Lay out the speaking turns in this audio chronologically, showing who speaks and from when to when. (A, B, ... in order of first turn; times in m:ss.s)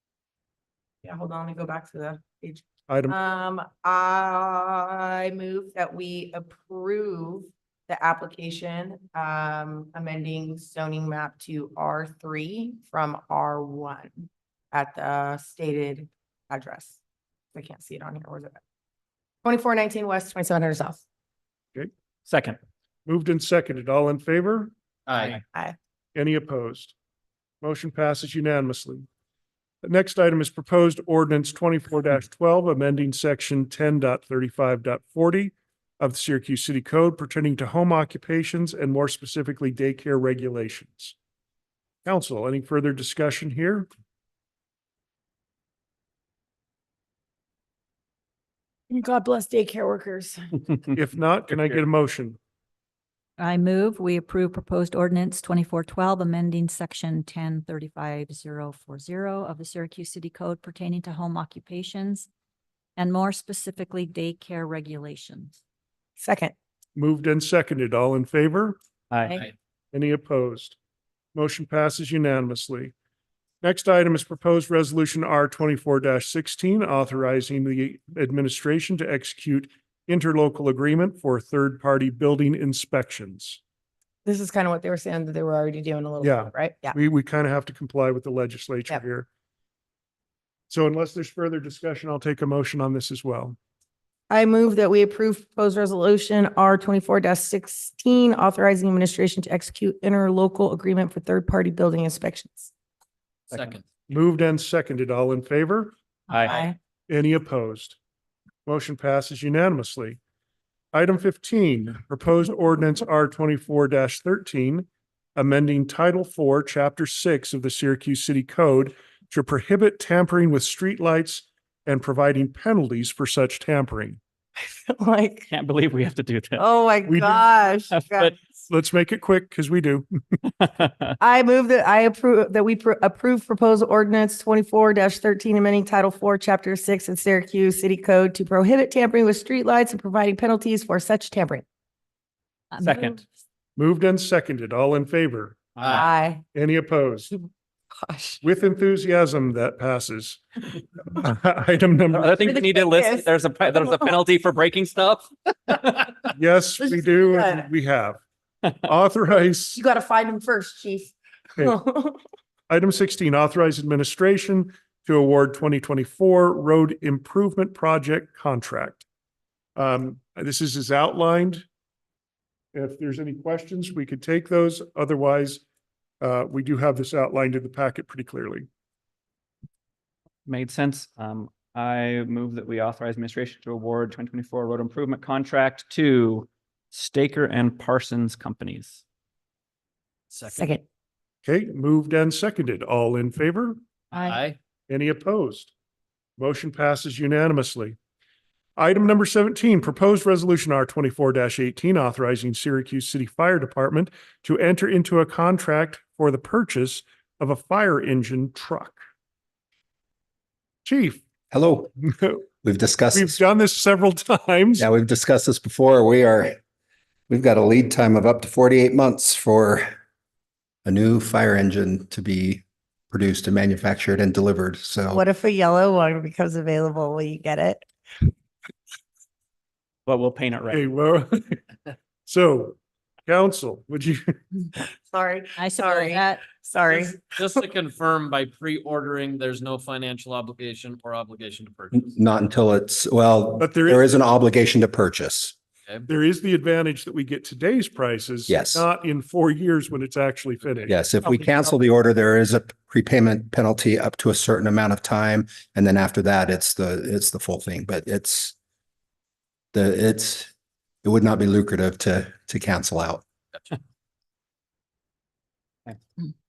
0:01.0-0:17.0 A
0:02.9-0:03.2 B
0:17.5-0:18.6 A
0:19.4-0:21.0 A
0:22.3-0:22.6 C
0:23.1-0:24.7 B
0:25.1-0:25.4 D
0:26.2-0:26.9 B
0:27.6-0:29.1 B
0:29.8-0:41.2 B
0:42.0-0:43.9 B
0:48.9-0:50.6 A
0:50.9-0:52.4 B
0:53.4-1:02.3 E
1:03.0-1:05.6 E
1:06.2-1:06.5 A
1:07.0-1:08.8 B
1:09.1-1:09.5 C
1:09.9-1:10.8 B
1:11.4-1:12.9 B
1:13.6-1:23.6 B
1:24.2-1:27.0 A
1:26.2-1:29.3 B
1:30.7-1:33.6 B
1:34.3-1:42.7 A
1:43.5-1:43.9 D
1:44.1-1:46.0 B
1:46.3-1:46.7 E
1:46.3-1:46.6 C
1:47.1-1:48.0 B
1:48.7-1:50.2 B
1:50.9-2:04.2 B
2:04.6-2:05.5 A
2:05.5-2:06.6 C
2:06.6-2:08.4 A
2:07.1-2:07.4 B
2:07.9-2:08.4 C
2:08.7-2:10.1 B
2:10.6-2:11.1 C
2:11.2-2:21.6 A
2:22.7-2:23.2 E
2:22.8-2:23.2 C
2:23.8-2:25.7 B
2:25.8-2:26.0 D
2:25.9-2:26.4 A
2:26.5-2:27.3 B
2:28.0-2:28.4 A
2:28.4-2:30.4 B
2:31.1-2:32.5 B
2:32.1-2:36.2 C
2:32.4-2:33.3 A
2:36.3-2:38.2 B
2:36.8-2:37.7 A
2:38.8-2:39.8 B
2:39.8-2:42.2 A
2:42.7-2:49.0 B
2:49.8-2:51.7 B
2:52.7-2:55.6 B
2:56.2-2:58.7 B
3:00.5-3:09.0 C
3:10.3-3:10.8 D
3:10.6-3:10.8 A
3:11.4-3:13.8 B
3:14.1-3:14.4 E
3:14.1-3:14.6 D
3:14.9-3:15.7 B
3:16.4-3:18.0 B
3:18.8-3:29.0 B
3:30.8-3:31.2 B
3:31.5-3:31.9 F
3:32.0-3:32.4 B
3:32.6-3:33.4 F
3:33.1-3:34.9 B
3:34.8-3:36.6 F
3:37.3-3:39.9 F
3:40.8-3:45.2 F
3:45.1-3:47.9 A
3:50.1-3:50.8 C
3:50.7-3:51.6 B
3:52.3-3:54.4 B
3:55.1-3:57.6 A
3:55.6-3:56.4 E
3:56.9-4:02.1 D
4:02.0-4:05.6 F
4:03.6-4:04.1 B
4:06.1-4:11.0 B
4:08.5-4:08.8 F
4:10.9-4:18.6 F
4:19.7-4:20.5 F
4:21.0-4:23.2 F